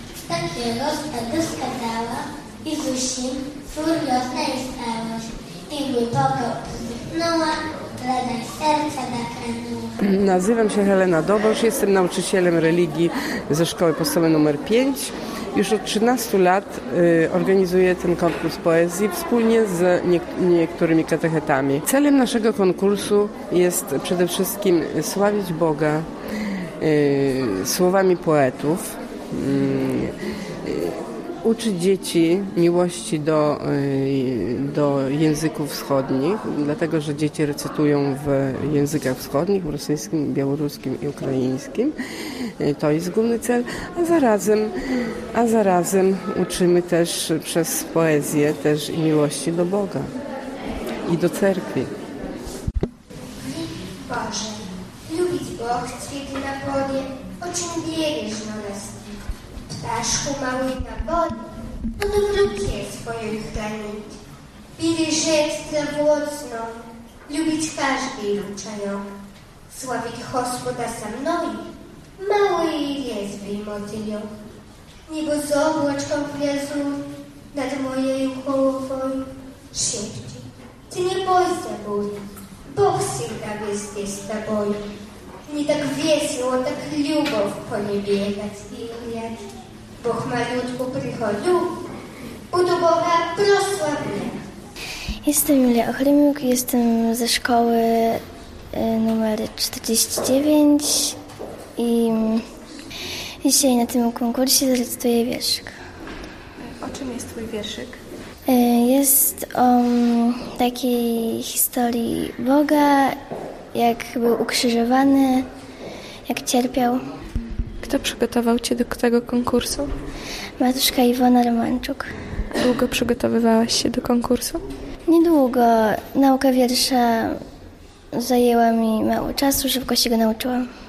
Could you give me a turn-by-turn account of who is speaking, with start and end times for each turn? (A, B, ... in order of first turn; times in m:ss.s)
0:00.2-0:10.0 A
0:10.0-0:26.1 B
0:26.8-0:30.1 B
0:30.6-0:41.9 B
0:42.6-0:50.1 B
0:51.0-0:51.9 B
0:53.4-0:59.0 C
0:59.7-1:01.4 C
1:02.0-1:04.1 C
1:04.8-1:09.0 C
1:09.7-1:14.3 C
1:15.1-1:17.0 C
1:17.5-1:24.8 C
1:25.4-1:29.4 C
1:30.0-1:31.7 C
1:32.5-1:34.4 C
1:35.2-1:41.2 D
1:41.8-1:42.4 D
1:43.4-1:45.7 D
1:46.6-1:48.0 E
1:48.5-1:53.2 D
1:53.7-1:55.5 D
1:56.3-1:57.0 D
1:57.8-1:59.9 E
2:00.6-2:02.0 D
2:02.6-2:04.6 E
2:05.1-2:07.4 D
2:08.1-2:10.7 D